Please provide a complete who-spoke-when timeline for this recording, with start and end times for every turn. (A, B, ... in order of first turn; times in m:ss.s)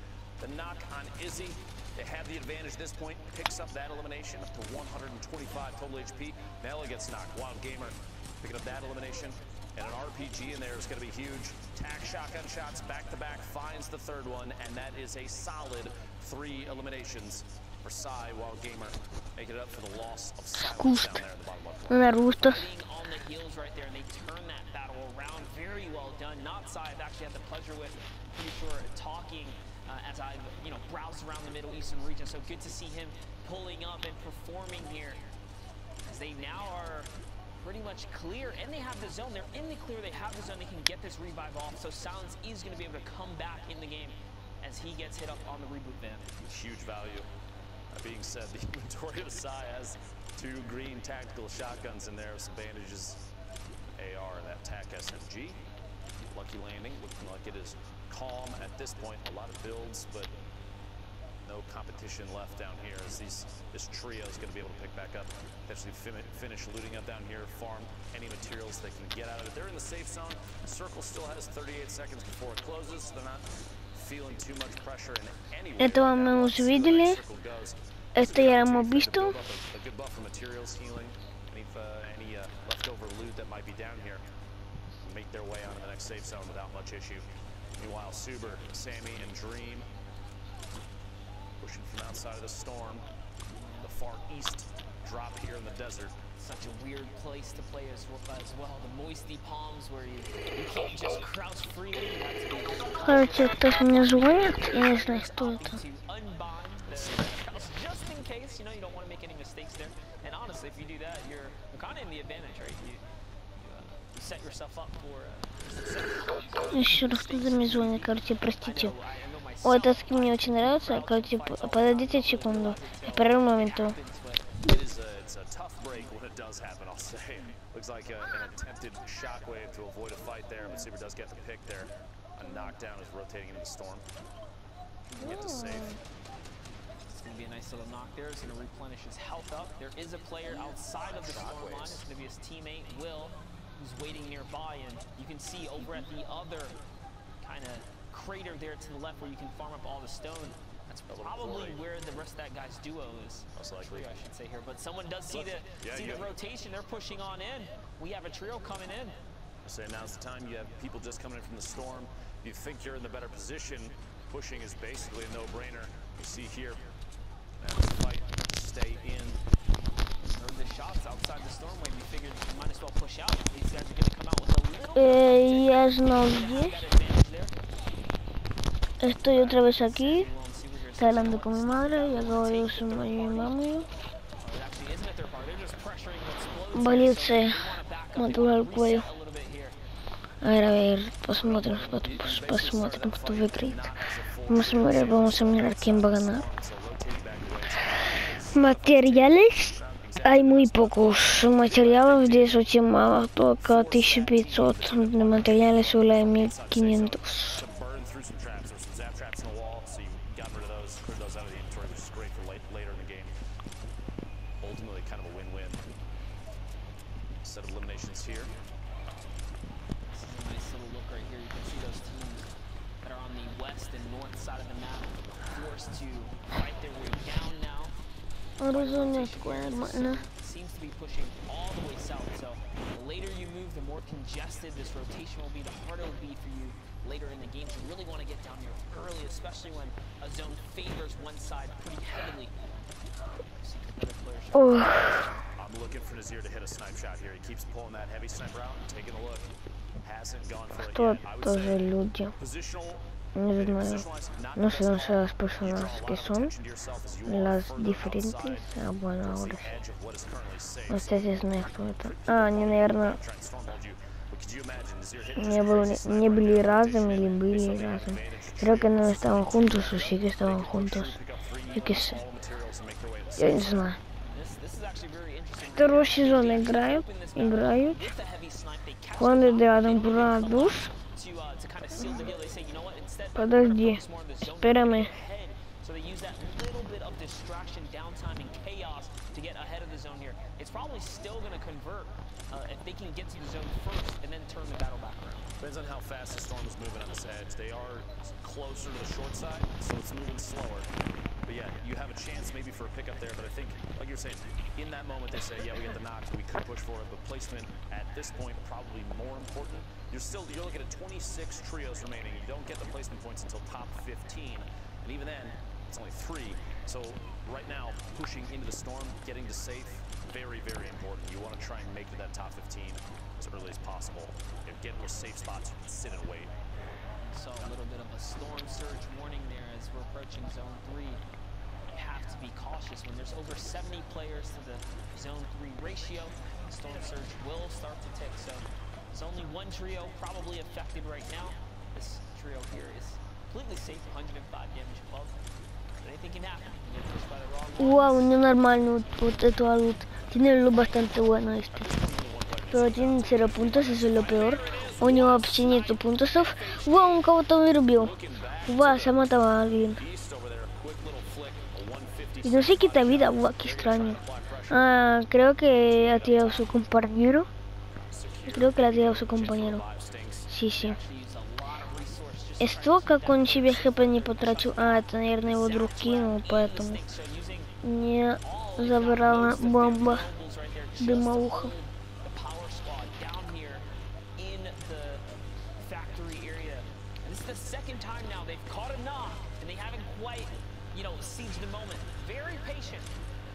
0:00.4-0:22.1 A
0:20.6-0:21.2 B
0:21.9-0:22.7 B
0:22.4-0:35.2 C
0:36.0-0:37.1 C
0:37.6-0:46.3 C
0:46.5-0:47.3 A
0:47.9-0:53.2 A
0:54.0-0:55.6 A
0:56.3-1:00.3 A
1:01.4-1:24.2 A
1:15.8-1:17.2 B
1:18.2-1:19.4 B
1:25.0-1:27.2 A
1:27.8-1:29.9 A
1:31.6-1:33.0 A
1:33.5-1:33.9 C
1:33.8-1:36.2 A
1:36.4-1:53.0 C
1:43.0-1:45.8 B
1:53.6-2:04.6 C
1:56.7-1:59.0 B
1:59.6-2:04.0 B
2:04.6-2:14.0 A
2:15.2-2:16.0 B
2:15.2-2:15.9 A
2:17.1-2:26.8 C
2:21.0-2:22.0 A
2:27.4-2:39.2 C
2:31.1-2:31.8 A
2:33.6-2:34.2 A
2:35.3-2:36.3 A
2:39.6-2:46.9 A
2:47.6-2:49.4 A
2:50.2-2:57.6 C
2:55.0-2:56.8 B
2:59.0-3:00.3 B
2:59.3-3:03.6 C
3:01.0-3:03.9 B
3:04.4-3:09.8 C
3:06.7-3:09.1 B
3:10.4-3:13.9 B
3:11.4-3:22.6 A
3:14.5-3:16.4 B
3:18.0-3:27.6 B
3:23.6-3:33.3 A
3:34.6-3:35.8 A
3:37.4-3:38.5 A
3:40.1-3:42.5 C
3:43.0-3:48.0 C
3:48.6-3:50.2 B
3:48.7-4:02.6 C
4:03.6-4:05.4 C
4:04.5-4:04.9 B
4:05.6-4:09.5 A
4:10.0-4:13.0 A
4:10.8-4:12.3 B
4:13.4-4:16.5 B
4:13.6-4:33.7 A
4:17.3-4:19.8 B
4:20.9-4:23.2 B
4:25.4-4:31.2 B
4:31.7-4:32.2 B
4:33.4-4:34.0 B
4:34.2-4:55.5 C
4:35.7-4:38.1 B
4:39.2-4:40.9 B
4:43.4-4:45.1 B
4:55.6-5:00.9 A
5:01.5-5:26.5 A
5:27.2-5:31.2 C
5:31.9-5:45.4 C
5:46.0-5:48.3 C
5:47.8-5:52.0 B
5:51.8-5:55.8 A
5:52.7-6:00.0 B
5:54.8-5:57.3 C
5:58.0-5:59.2 A
6:00.0-6:04.9 A
6:02.4-6:04.2 B
6:04.7-6:07.5 B
6:06.1-6:06.7 A
6:08.1-6:10.5 A
6:08.5-6:09.8 B
6:10.5-6:11.0 B
6:10.8-6:17.8 C
6:12.6-6:17.0 B
6:17.8-6:20.3 B
6:18.4-6:23.9 C
6:21.0-6:21.7 B
6:24.4-6:25.2 C
6:25.8-6:33.1 C